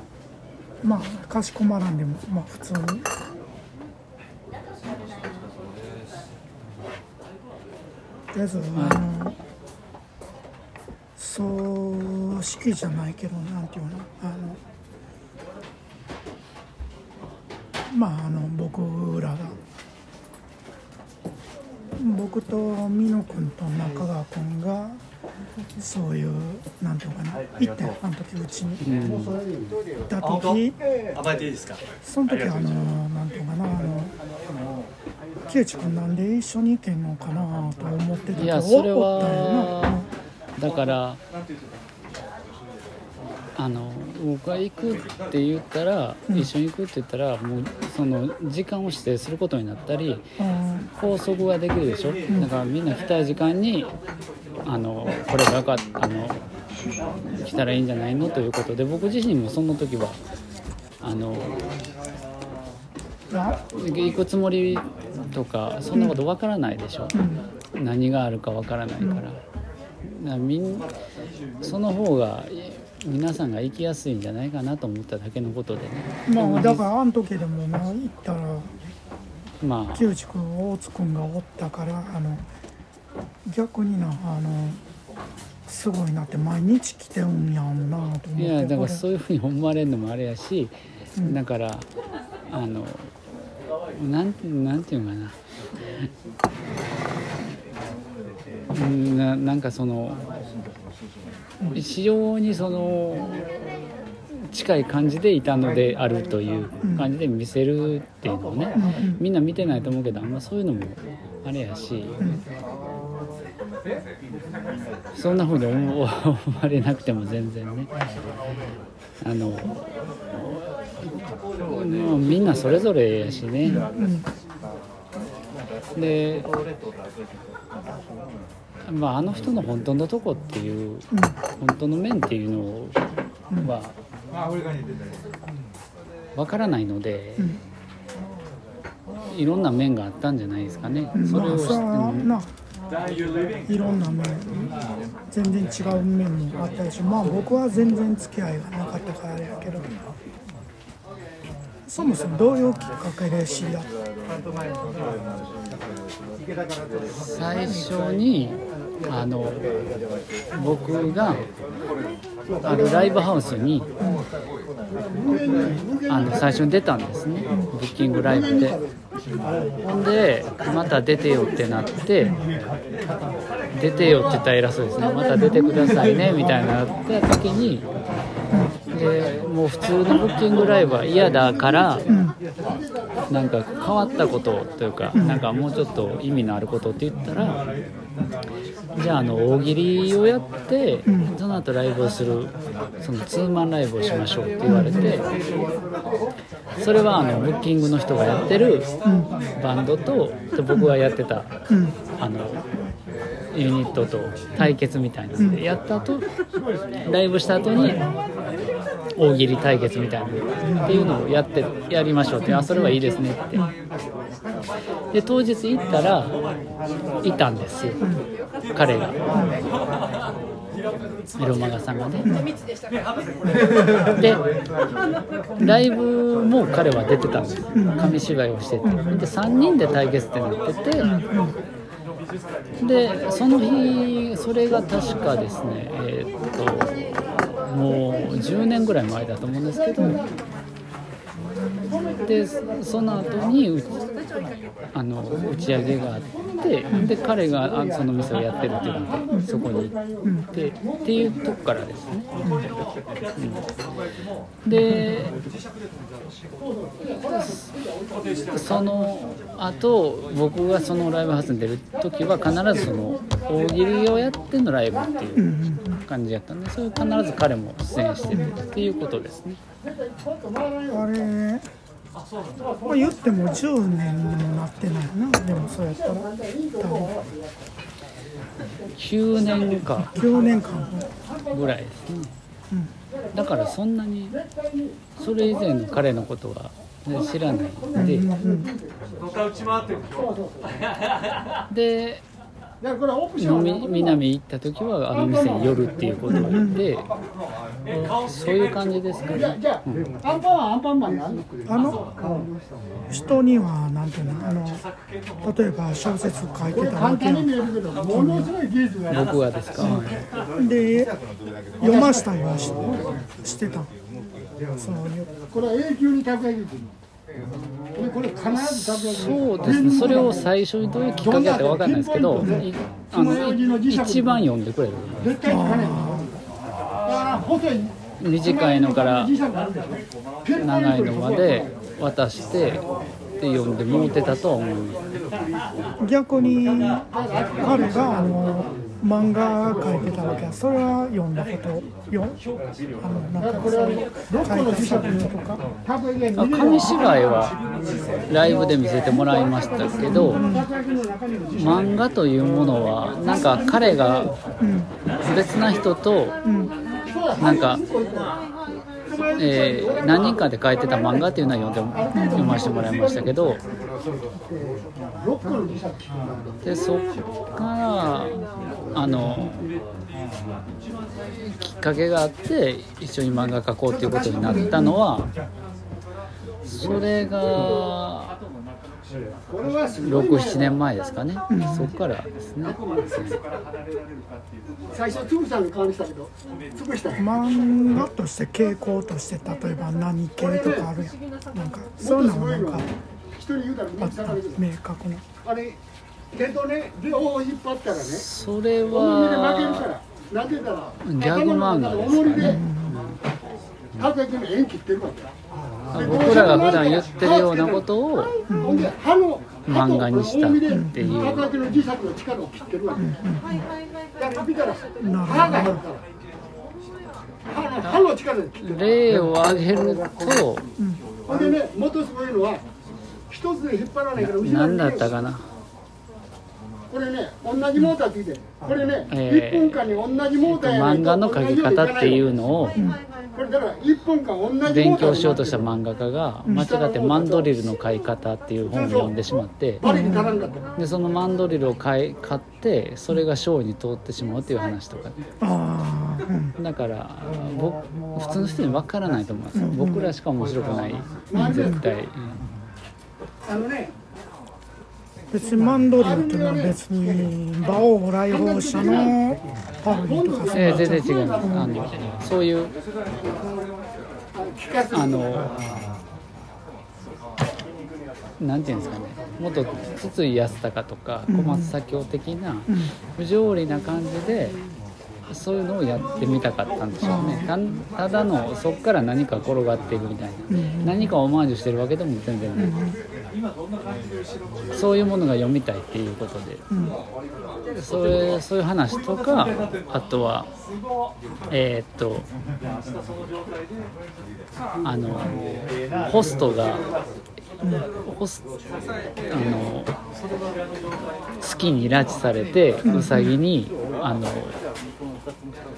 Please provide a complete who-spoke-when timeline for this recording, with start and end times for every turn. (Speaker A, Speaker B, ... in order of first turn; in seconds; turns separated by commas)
Speaker A: 0.8-3.0, Speaker A: 8.3-9.3, Speaker B: 8.7-9.0, Speaker A: 11.2-14.6, Speaker A: 17.9-19.6, Speaker A: 22.0-25.0, Speaker A: 25.8-28.8, Speaker B: 28.8-29.4, Speaker A: 30.1-30.8, Speaker A: 32.0-34.1, Speaker A: 35.5-40.0, Speaker B: 38.4-40.0, Speaker B: 40.6-41.2, Speaker B: 43.6-50.3, Speaker A: 50.4-50.9, Speaker B: 51.0-53.9, Speaker B: 54.6-56.4, Speaker B: 57.4-60.2, Speaker B: 61.0-61.5, Speaker A: 63.3-63.6, Speaker B: 63.7-67.2, Speaker A: 65.9-66.2, Speaker A: 67.1-67.4, Speaker B: 67.8-69.4, Speaker B: 70.1-70.9, Speaker B: 71.6-76.8, Speaker A: 76.3-78.7, Speaker B: 79.6-80.0, Speaker A: 79.9-82.5, Speaker A: 83.5-84.8, Speaker A: 85.7-89.0, Speaker B: 88.4-91.9, Speaker B: 92.5-93.1, Speaker B: 94.0-95.4, Speaker B: 98.7-100.2, Speaker B: 101.7-103.4, Speaker B: 104.5-112.2, Speaker A: 106.8-107.1, Speaker A: 108.8-109.2, Speaker B: 115.1-117.9, Speaker B: 119.2-119.8, Speaker B: 121.6-123.9, Speaker A: 123.6-124.2, Speaker B: 126.0-126.5, Speaker B: 128.8-131.1, Speaker B: 131.6-133.0, Speaker B: 133.6-133.9, Speaker B: 136.3-137.6, Speaker B: 139.2-142.3, Speaker A: 141.1-142.5, Speaker A: 143.7-144.7, Speaker A: 145.3-149.9, Speaker A: 151.9-153.9, Speaker B: 157.1-159.7, Speaker B: 160.5-161.4, Speaker B: 162.6-163.9, Speaker C: 165.3-166.1, Speaker B: 166.1-168.8, Speaker B: 169.8-172.4, Speaker B: 173.7-177.8, Speaker B: 178.9-182.0, Speaker A: 182.1-182.3, Speaker B: 183.3-187.6, Speaker A: 185.1-185.4, Speaker B: 188.9-195.2, Speaker A: 191.1-191.3, Speaker A: 194.6-195.2, Speaker B: 196.8-198.9, Speaker A: 199.0-199.3, Speaker B: 199.6-201.5, Speaker A: 201.7-201.9, Speaker B: 202.2-202.6, Speaker B: 203.5-206.2, Speaker A: 205.4-205.6, Speaker B: 207.1-208.0, Speaker B: 209.2-213.6, Speaker A: 210.6-211.1, Speaker A: 212.4-213.0, Speaker B: 215.1-216.3, Speaker B: 217.2-218.0, Speaker B: 218.7-219.2, Speaker B: 221.4-222.3, Speaker B: 225.6-231.1, Speaker A: 227.7-228.1, Speaker A: 228.8-229.3, Speaker A: 231.0-231.5, Speaker B: 232.8-236.9, Speaker B: 237.7-240.2, Speaker B: 242.2-243.9, Speaker B: 244.9-249.9, Speaker B: 250.5-252.2, Speaker B: 253.4-253.6, Speaker B: 254.7-255.3, Speaker A: 254.7-255.2, Speaker B: 257.1-257.7, Speaker B: 258.5-265.4, Speaker A: 265.3-266.0, Speaker B: 266.1-269.6, Speaker C: 270.4-270.8, Speaker A: 270.9-271.6, Speaker A: 272.9-277.1, Speaker C: 276.4-277.3, Speaker B: 279.0-280.2, Speaker A: 280.0-281.1, Speaker B: 281.5-282.3, Speaker B: 283.3-284.4, Speaker C: 284.7-285.1, Speaker B: 285.2-288.3, Speaker A: 287.9-288.7, Speaker C: 288.0-288.8, Speaker C: 290.2-290.4, Speaker B: 291.7-292.2, Speaker C: 292.8-293.8, Speaker B: 293.4-297.1, Speaker A: 296.3-296.8, Speaker B: 297.9-300.1, Speaker C: 300.2-301.3, Speaker A: 301.6-302.0, Speaker A: 303.1-304.8, Speaker A: 305.4-307.5, Speaker C: 306.9-308.9, Speaker A: 308.1-308.5, Speaker B: 309.1-310.2, Speaker A: 309.8-311.1, Speaker A: 311.8-312.9, Speaker A: 313.4-313.9, Speaker A: 314.8-315.3, Speaker C: 315.5-316.7, Speaker C: 318.0-320.1, Speaker B: 318.5-325.3, Speaker C: 321.5-322.5, Speaker A: 322.4-322.6, Speaker C: 323.1-323.9, Speaker C: 325.3-325.9, Speaker A: 325.4-326.3, Speaker C: 327.1-327.9, Speaker B: 328.2-329.3, Speaker C: 329.1-329.7, Speaker B: 330.6-332.8, Speaker B: 333.4-335.0, Speaker A: 336.0-342.4, Speaker A: 343.0-345.6, Speaker C: 346.2-346.7, Speaker B: 346.3-347.6, Speaker B: 348.3-350.4, Speaker A: 350.1-350.7, Speaker B: 351.5-354.3, Speaker A: 354.6-354.9, Speaker B: 355.2-356.4, Speaker A: 356.4-356.7, Speaker B: 357.4-357.8, Speaker B: 359.4-363.6, Speaker A: 362.1-362.6, Speaker A: 365.4-365.7, Speaker B: 366.6-368.4, Speaker B: 368.9-369.7, Speaker B: 371.4-375.3, Speaker A: 374.4-374.9, Speaker B: 376.6-378.3, Speaker B: 380.0-383.4, Speaker A: 381.5-381.9, Speaker C: 384.9-387.2, Speaker A: 387.2-392.9, Speaker C: 392.0-392.8, Speaker C: 393.4-394.6, Speaker A: 394.0-395.2, Speaker C: 395.4-395.8, Speaker C: 396.3-398.2, Speaker B: 397.9-399.9, Speaker C: 399.0-402.6, Speaker B: 401.0-403.2, Speaker A: 402.3-402.9, Speaker C: 404.0-405.2, Speaker B: 405.9-408.3, Speaker C: 406.0-407.2, Speaker A: 408.5-408.9, Speaker C: 408.6-413.0, Speaker B: 409.7-411.5, Speaker A: 410.7-411.2, Speaker A: 413.0-413.7, Speaker C: 414.2-414.9, Speaker A: 415.0-415.8, Speaker C: 415.4-415.9, Speaker C: 417.6-418.6, Speaker B: 418.5-420.6, Speaker C: 421.3-422.6, Speaker C: 423.3-424.8, Speaker B: 424.1-425.4, Speaker C: 426.9-430.6, Speaker B: 429.1-429.8, Speaker B: 430.4-432.8, Speaker C: 431.1-431.4, Speaker A: 432.7-433.0, Speaker C: 433.4-435.4, Speaker B: 434.6-439.8, Speaker A: 439.8-440.3, Speaker C: 439.8-440.5, Speaker B: 440.8-445.2, Speaker A: 445.4-446.5, Speaker B: 446.6-452.4, Speaker A: 449.5-450.1, Speaker A: 451.3-451.8, Speaker C: 451.4-451.8, Speaker C: 453.5-453.9, Speaker A: 455.3-461.7, Speaker C: 455.9-456.7, Speaker C: 460.3-461.4, Speaker B: 460.5-462.7, Speaker B: 464.9-465.5, Speaker B: 468.4-474.6, Speaker A: 471.3-471.7, Speaker B: 475.3-482.7, Speaker A: 477.0-477.5, Speaker A: 480.5-481.1, Speaker A: 482.6-483.0, Speaker B: 484.7-486.6, Speaker A: 486.7-486.9, Speaker B: 487.8-490.5, Speaker B: 491.5-492.3, Speaker B: 494.8-495.4, Speaker B: 496.0-496.8, Speaker B: 498.1-498.4, Speaker B: 499.3-499.9, Speaker B: 501.4-504.5, Speaker A: 502.8-503.3